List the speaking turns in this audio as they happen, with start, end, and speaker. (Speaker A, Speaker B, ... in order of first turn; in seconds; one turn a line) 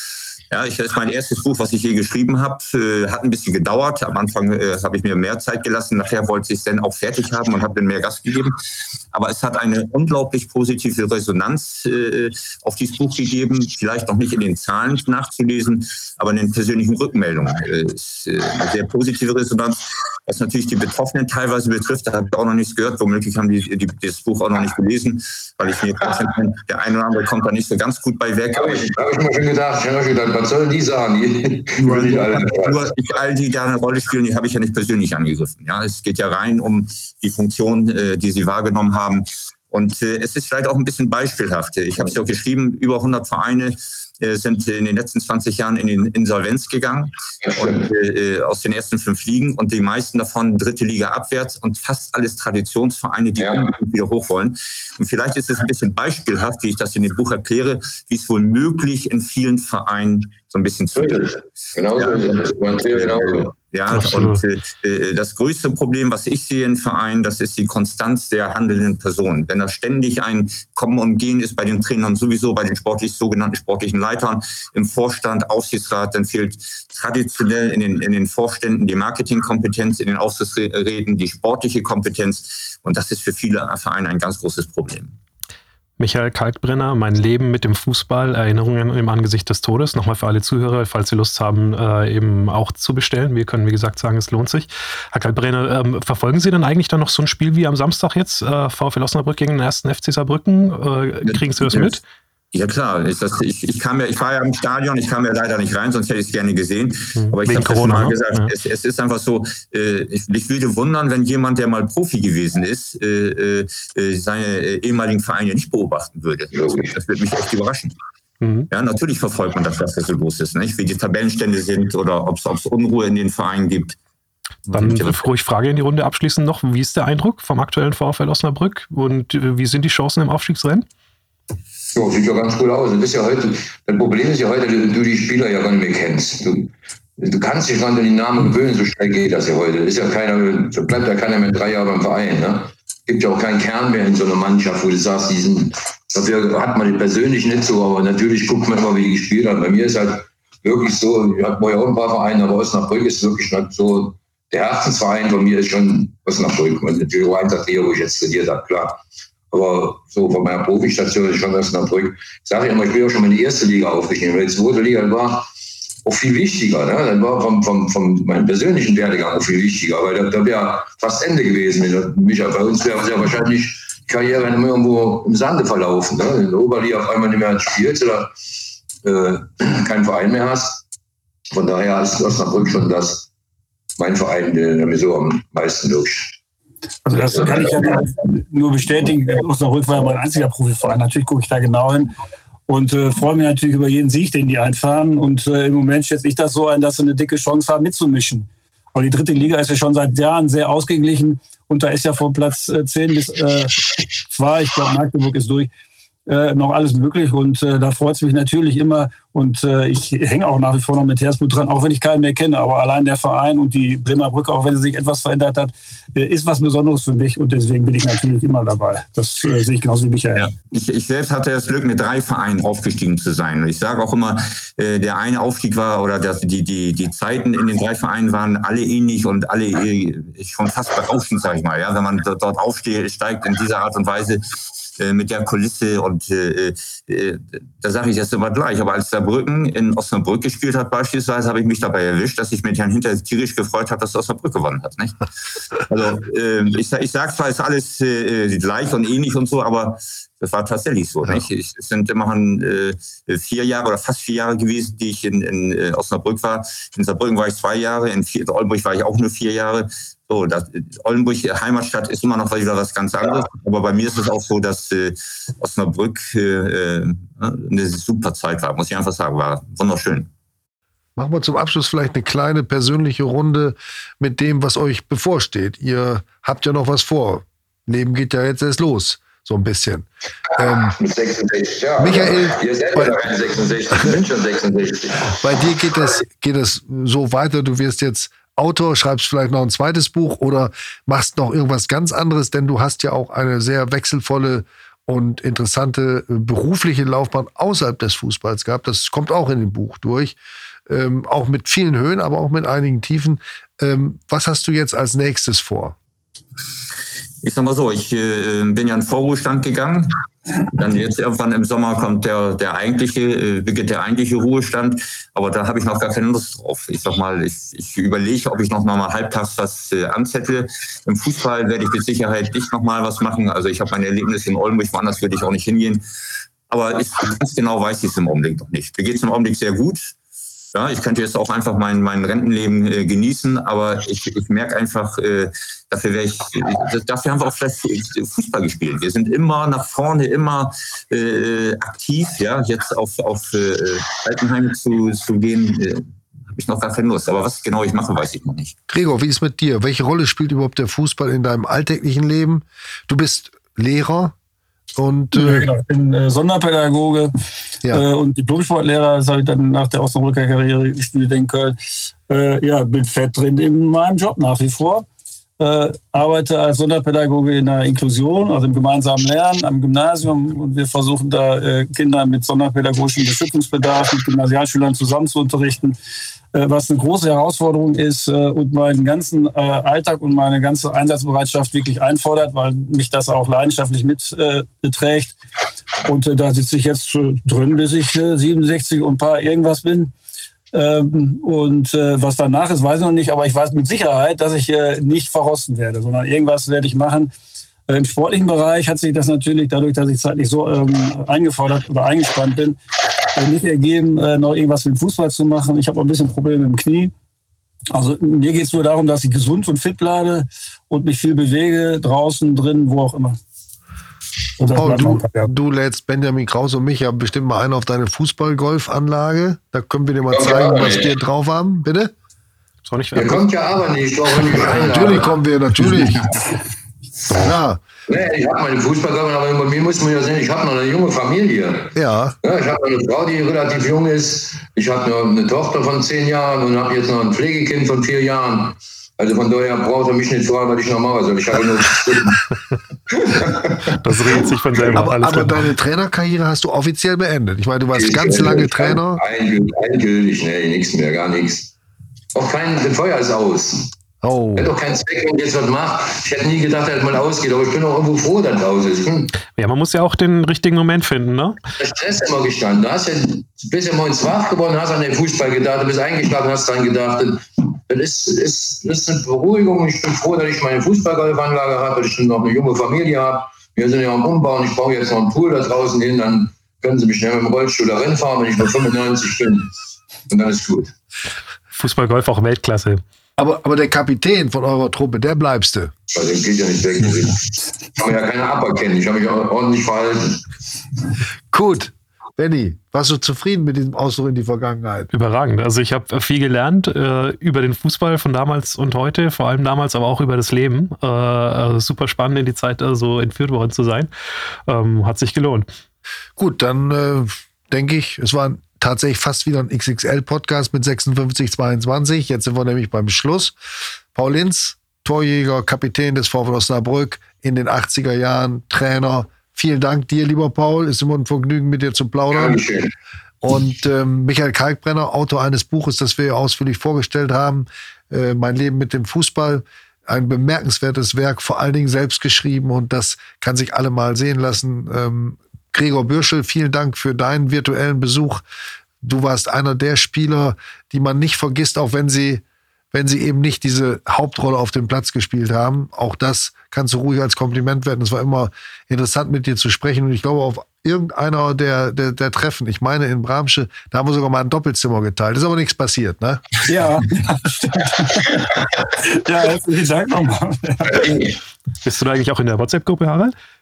Speaker A: 0.5-8.5
Speaker A: 9.1-28.9
Speaker B: 28.6-32.9
Speaker A: 31.8-61.4
Speaker B: 47.4-47.8
Speaker B: 53.4-53.6
Speaker B: 61.0-63.5
Speaker A: 62.0-85.2
Speaker C: 63.9-64.4
Speaker C: 86.0-102.0
Speaker A: 101.2-102.0
Speaker A: 102.5-118.0
Speaker C: 107.2-108.5
Speaker B: 116.5-117.0
Speaker C: 118.4-118.7
Speaker A: 118.7-124.0
Speaker A: 124.7-125.2
Speaker C: 124.7-130.9
Speaker B: 131.9-165.5
Speaker B: 166.1-178.4
Speaker B: 179.0-180.8
Speaker B: 181.5-183.3
Speaker B: 184.0-186.4
Speaker D: 187.1-192.1
Speaker D: 192.7-205.7
Speaker D: 206.3-220.5
Speaker A: 220.3-245.2
Speaker A: 245.9-270.3
Speaker E: 271.2-281.0
Speaker B: 281.0-285.4
Speaker E: 282.0-283.2
Speaker E: 283.9-284.2
Speaker E: 285.3-306.0
Speaker A: 307.4-310.2
Speaker A: 310.7-326.1
Speaker A: 326.7-330.1
Speaker A: 330.7-348.7
Speaker E: 348.9-354.4
Speaker E: 355.0-355.7
Speaker D: 355.3-357.3
Speaker D: 357.9-365.1
Speaker D: 365.6-376.0
Speaker D: 376.5-385.4
Speaker D: 386.1-390.1
Speaker D: 390.7-397.3
Speaker D: 397.9-402.8
Speaker D: 403.4-407.1
Speaker D: 407.9-413.4
Speaker D: 414.6-415.5
Speaker E: 414.6-422.1
Speaker B: 420.3-421.1
Speaker C: 422.9-423.4
Speaker B: 423.1-425.3
Speaker E: 424.7-426.3
Speaker E: 427.4-427.8
Speaker B: 428.1-442.5
Speaker E: 431.9-432.4
Speaker B: 443.1-445.0
Speaker C: 443.9-445.6
Speaker E: 444.9-449.2
Speaker B: 447.9-451.7
Speaker B: 452.4-453.9
Speaker E: 454.2-454.7
Speaker B: 454.6-459.3
Speaker C: 459.6-461.6
Speaker B: 461.8-479.7
Speaker B: 480.3-480.9
Speaker C: 481.8-483.0
Speaker E: 483.4-485.9
Speaker B: 486.1-490.4
Speaker E: 491.5-495.1
Speaker C: 495.1-504.1
Speaker C: 504.7-505.7
Speaker E: 506.4-513.6
Speaker E: 514.1-522.6
Speaker B: 522.3-522.9
Speaker E: 523.4-538.4
Speaker E: 539.0-556.7
Speaker D: 556.6-558.4
Speaker D: 559.0-561.2
Speaker B: 560.9-561.4
Speaker C: 561.8-563.3